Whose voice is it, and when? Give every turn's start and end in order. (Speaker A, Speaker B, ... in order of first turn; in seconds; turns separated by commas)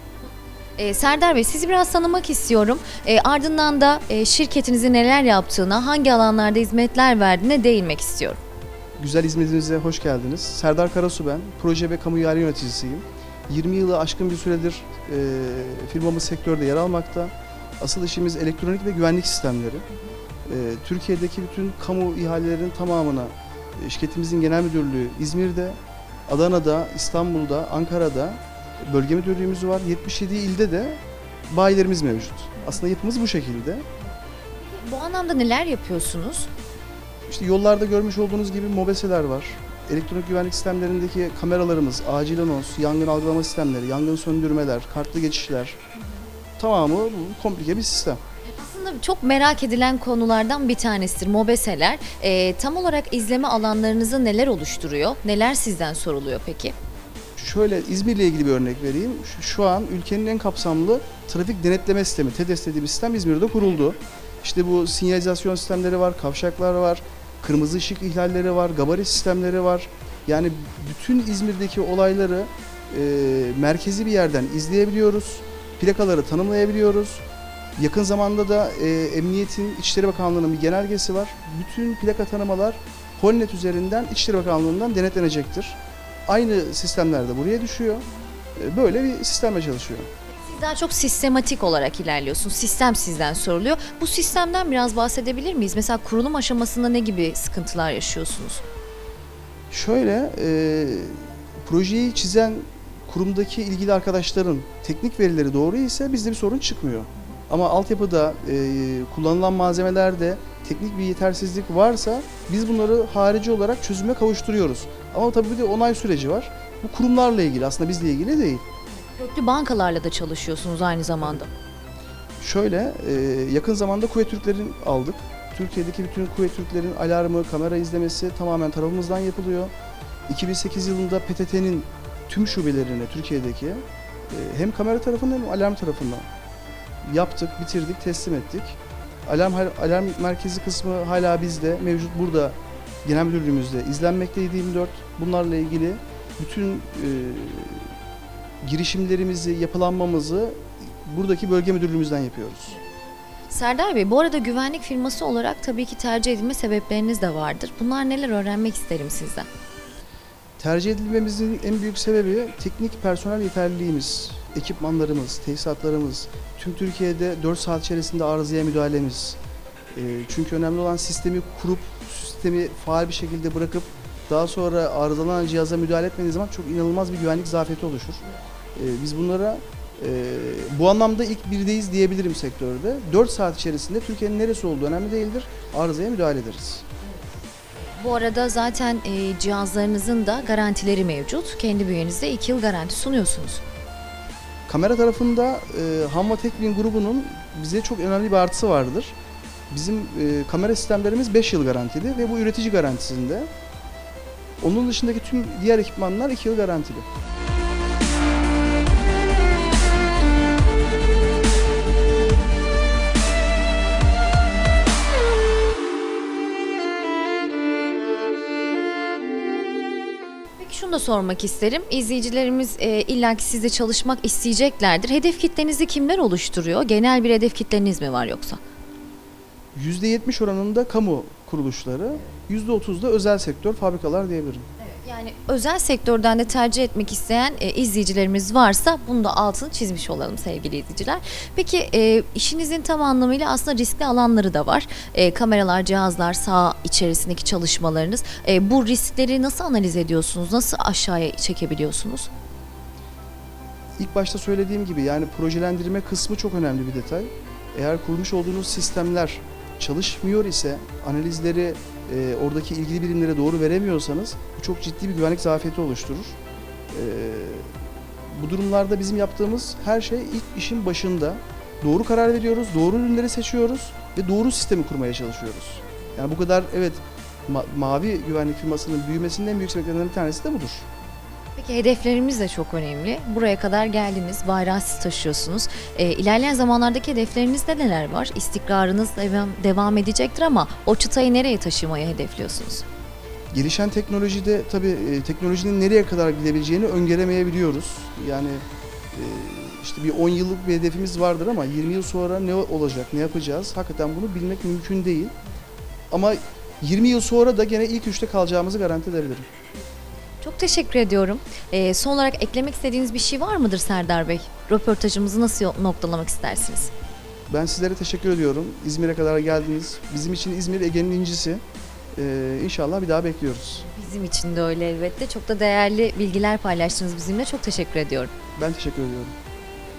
Speaker A: 0.8-8.4, Speaker B: 9.0-19.9, Speaker B: 20.5-33.9, Speaker A: 34.6-36.5, Speaker B: 37.3-45.8, Speaker B: 46.6-48.2, Speaker A: 48.5-56.8, Speaker B: 57.4-77.2, Speaker B: 77.8-90.1, Speaker A: 90.4-98.6, Speaker B: 99.7-118.6, Speaker A: 119.2-121.5, Speaker B: 122.4-129.7, Speaker B: 130.3-136.3, Speaker B: 137.0-147.9, Speaker B: 148.6-152.8, Speaker A: 153.5-159.5, Speaker B: 160.6-169.4, Speaker B: 169.9-186.8, Speaker A: 188.0-193.6, Speaker B: 194.7-199.2, Speaker B: 199.7-203.5, Speaker B: 204.6-207.1, Speaker A: 220.6-228.6, Speaker B: 229.8-234.7, Speaker A: 234.8-252.3, Speaker B: 254.0-266.4, Speaker B: 266.9-267.7, Speaker B: 268.3-280.9, Speaker A: 281.6-292.9, Speaker B: 293.5-305.4, Speaker B: 306.1-309.5, Speaker A: 310.4-316.9, Speaker B: 317.5-321.6, Speaker B: 322.1-323.9, Speaker A: 323.9-328.3, Speaker B: 328.6-329.4